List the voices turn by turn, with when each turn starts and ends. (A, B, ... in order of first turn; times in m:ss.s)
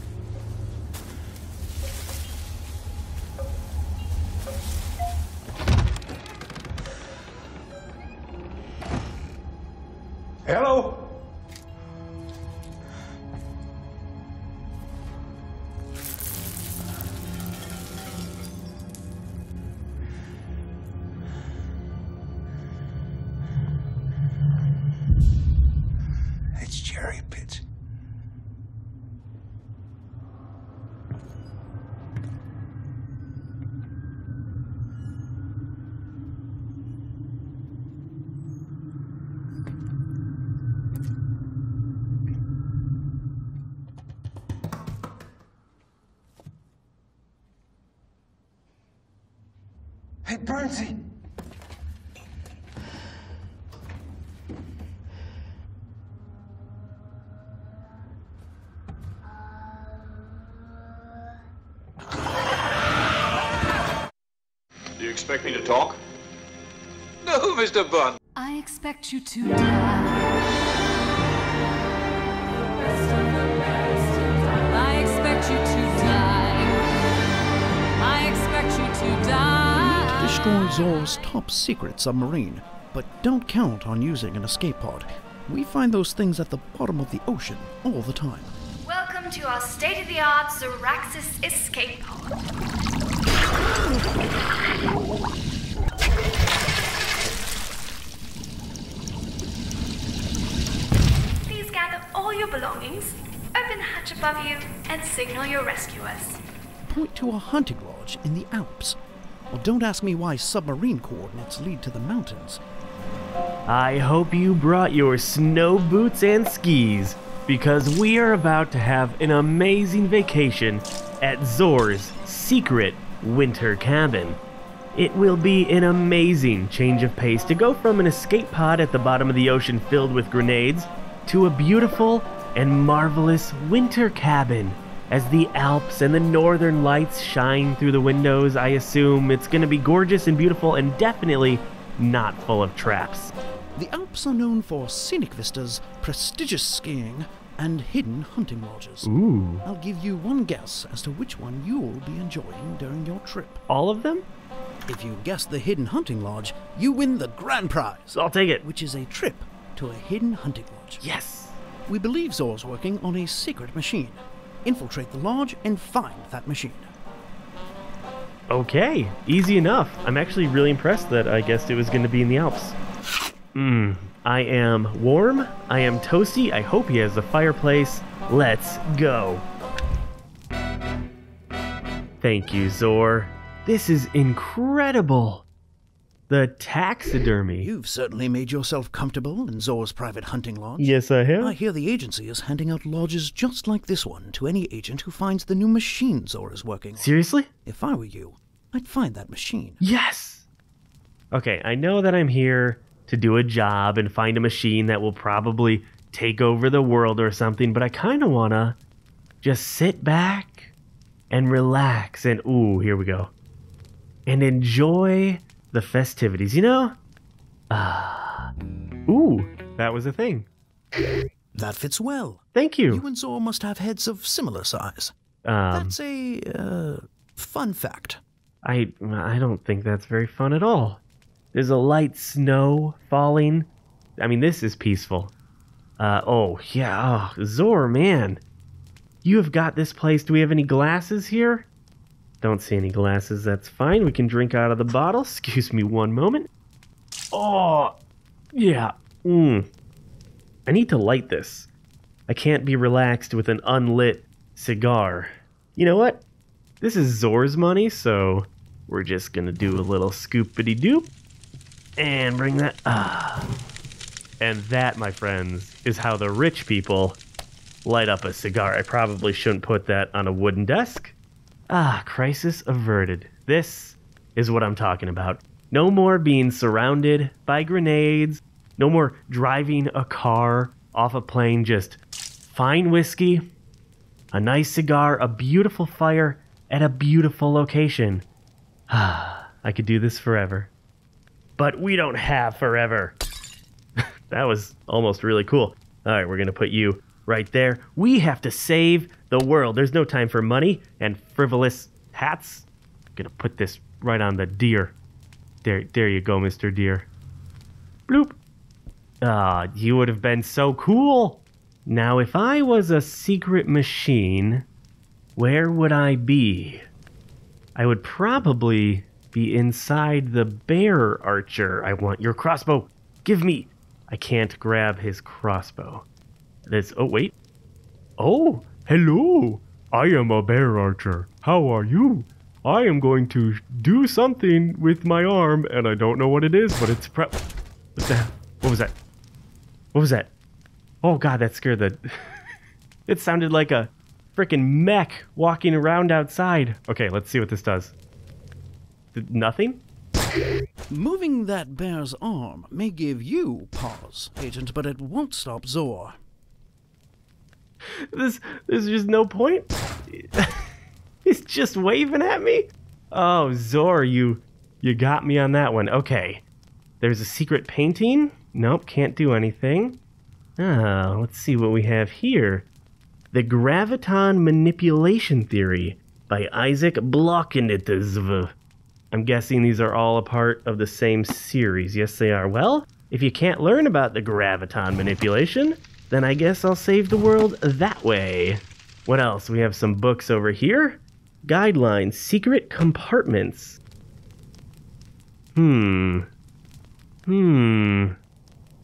0:26.6-0:27.5 A
1:05.0-1:06.0 B
1:07.2-1:08.2 B
1:08.4-1:10.3 C
1:12.6-1:16.8 C
1:18.0-1:21.2 C
1:19.7-1:28.5 A
1:28.9-1:32.3 D
1:41.5-1:46.4 D
1:46.8-1:49.0 A
1:49.5-1:52.6 A
1:53.7-2:04.4 E
2:04.9-2:23.3 E
2:23.8-2:29.1 A
2:29.0-2:29.6 E
2:29.6-2:33.6 A
2:33.7-2:34.3 E
2:34.9-2:41.0 A
2:38.1-2:38.6 E
2:41.0-2:41.6 E
2:41.9-2:46.9 A
2:48.5-2:52.8 E
2:53.5-2:59.5 E
3:02.2-3:05.5 E
3:06.3-3:07.7 E
3:07.6-3:17.1 A
3:10.8-3:11.6 E
3:17.0-3:17.5 E
3:17.7-3:19.8 A
3:19.8-3:20.5 E
3:21.3-3:28.8 E
3:29.4-3:30.7 E
3:31.3-3:33.3 E
3:34.3-3:37.0 E
3:37.7-3:38.5 E
3:39.1-3:40.5 E
3:41.6-3:45.2 A
3:42.5-3:43.0 E
3:45.4-3:46.0 E
3:45.7-3:48.2 A
3:48.6-3:51.0 E
3:51.5-3:55.3 E
3:56.0-3:58.4 E
3:59.2-4:01.7 E
4:02.4-4:06.5 E
4:07.3-4:08.0 E
4:08.5-4:09.7 E
4:10.7-4:11.7 E
4:12.3-4:16.2 E
4:16.8-4:21.1 E
4:22.0-4:23.5 E
4:24.4-4:27.2 E
4:27.8-4:31.2 E
4:31.7-4:43.4 E
4:44.3-4:48.2 E
4:48.9-4:50.7 E
4:51.6-4:53.2 E
4:54.0-5:05.0 E
5:05.6-5:07.1 E
5:08.1-5:08.4 E
5:09.2-5:14.7 E
5:15.4-5:16.8 E
5:17.8-5:26.1 E
5:26.7-5:27.3 E
5:28.2-5:37.4 E
5:38.0-5:38.9 E
5:39.9-5:40.3 E
5:41.0-5:42.1 E
5:43.1-5:47.9 E
5:49.1-5:49.8 E
5:50.9-5:56.2 A
5:57.9-6:00.6 E
6:01.2-6:06.4 E
6:07.0-6:10.0 E
6:10.6-6:12.7 E
6:13.3-6:18.5 E
6:19.1-6:33.8 E
6:35.6-6:36.3 E
6:37.3-6:38.2 E